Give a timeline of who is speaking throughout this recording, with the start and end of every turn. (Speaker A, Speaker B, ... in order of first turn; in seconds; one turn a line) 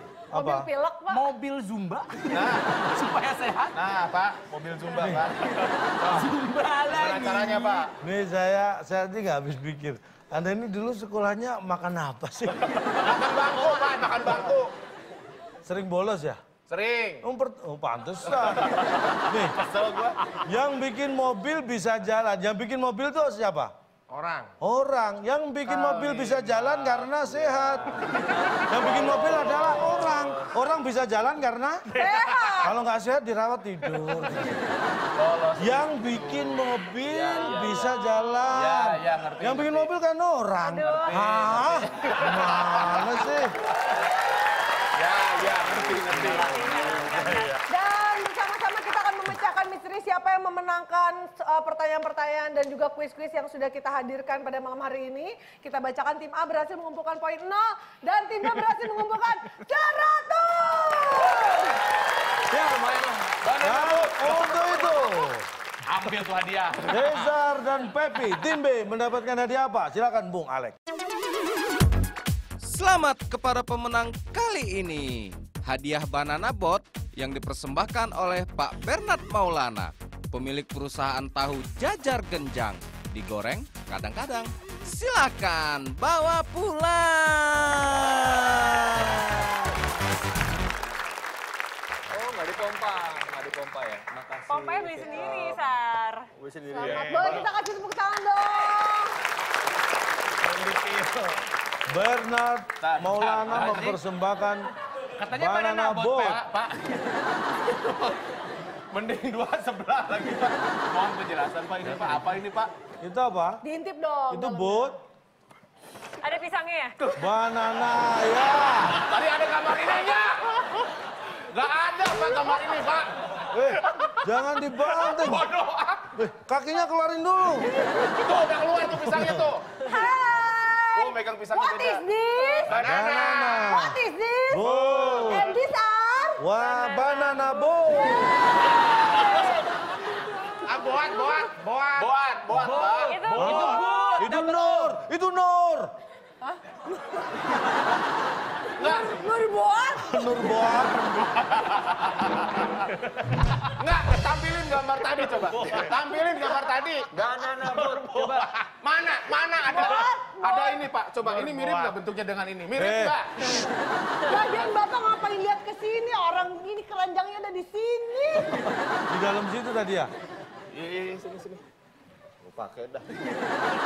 Speaker A: 0.3-0.7
Speaker B: 0.3-1.3
Speaker C: 1.1-3.8
Speaker D: 2.3-2.8
Speaker D: 3.7-6.3
Speaker A: 5.0-5.3
Speaker C: 6.0-7.8
Speaker D: 6.9-7.9
Speaker A: 8.0-12.7
Speaker D: 12.9-14.7
Speaker A: 15.7-16.4
Speaker D: 16.7-17.2
Speaker A: 17.2-19.7
Speaker D: 19.6-20.2
Speaker A: 20.4-23.7
Speaker E: 24.1-24.5
Speaker A: 24.6-28.1
Speaker D: 25.7-30.5
Speaker A: 28.7-31.9
Speaker B: 31.9-32.7
Speaker A: 32.6-34.8
Speaker D: 35.1-39.9
Speaker A: 35.6-43.5
Speaker F: 40.7-41.3
Speaker D: 40.9-43.3
Speaker D: 45.0-46.7
Speaker G: 45.6-46.4
Speaker C: 46.1-47.4
Speaker F: 46.5-47.6
Speaker B: 47.7-61.8
Speaker D: 62.5-65.0
Speaker A: 63.6-65.5
Speaker C: 65.9-67.3
Speaker D: 66.1-67.0
Speaker A: 66.9-70.8
Speaker H: 72.6-89.4
Speaker G: 92.1-95.7
Speaker F: 94.5-96.3
Speaker G: 96.3-97.4
Speaker B: 96.7-99.1
Speaker E: 96.8-97.5
Speaker E: 100.4-101.4
Speaker A: 101.9-104.7
Speaker D: 102.8-103.8
Speaker C: 103.5-104.0
Speaker C: 105.2-106.5
Speaker A: 105.3-106.4
Speaker D: 106.5-106.8
Speaker D: 107.5-108.2
Speaker D: 108.9-112.7
Speaker A: 113.0-113.6
Speaker B: 113.6-115.0
Speaker A: 114.3-115.0
Speaker F: 116.2-117.0
Speaker A: 117.2-119.0
Speaker D: 118.9-120.9
Speaker D: 121.5-123.1
Speaker A: 123.5-125.5
Speaker D: 125.0-126.1
Speaker A: 126.2-127.7
Speaker B: 127.8-128.2
Speaker D: 128.0-130.0
Speaker A: 129.1-129.5
Speaker B: 129.8-132.7
Speaker D: 130.9-132.1
Speaker D: 132.7-133.0
Speaker E: 132.7-133.8
Speaker A: 132.8-135.5
Speaker B: 133.3-141.2
Speaker D: 134.6-135.6
Speaker A: 136.4-138.6
Speaker E: 140.7-142.1
Speaker D: 142.0-143.2
Speaker C: 142.5-144.9
Speaker F: 143.1-143.9
Speaker A: 143.4-145.9
Speaker B: 148.8-150.2
Speaker A: 150.0-151.6
Speaker D: 153.7-157.1
Speaker G: 155.6-156.0
Speaker G: 157.1-158.5
Speaker E: 157.6-157.9
Speaker D: 158.2-163.7
Speaker B: 159.6-160.8
Speaker E: 161.2-161.9
Speaker A: 162.7-163.2
Speaker B: 164.2-168.5
Speaker A: 168.5-170.1
Speaker D: 170.7-171.6
Speaker D: 172.4-173.1